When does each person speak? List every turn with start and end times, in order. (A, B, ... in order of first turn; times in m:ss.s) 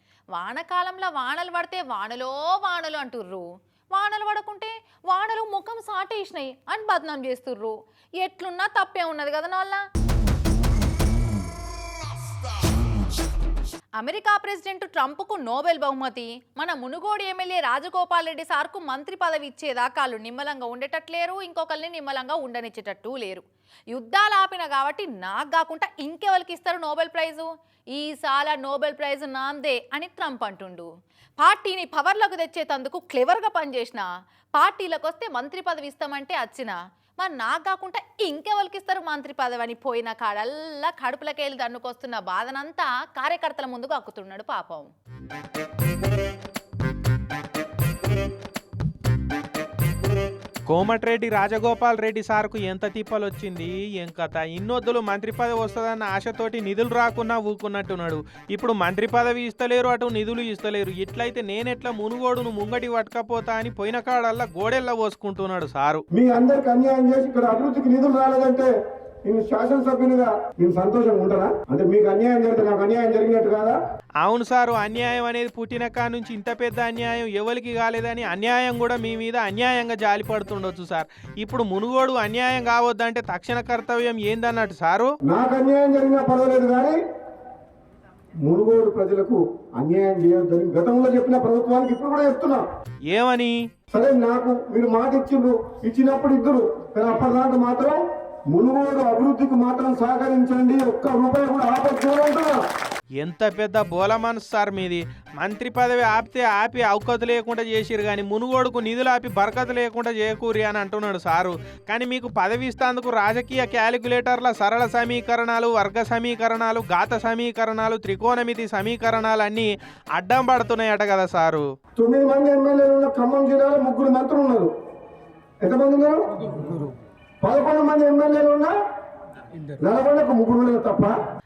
0:00.3-0:09.8 A
0:14.0-0:30.9 A
0:31.4-0:44.9 A
0:50.7-1:06.0 B
1:06.1-1:08.7 C
1:09.3-1:13.8 C
1:14.2-1:25.1 B
1:25.3-1:27.0 C
1:28.4-1:32.6 C
1:33.1-1:33.6 B
1:33.9-1:38.0 C
1:38.5-1:42.5 C
1:43.2-2:01.6 B
2:02.0-2:04.7 C
2:05.6-2:06.8 C
2:07.4-2:08.7 C
2:09.8-2:11.1 C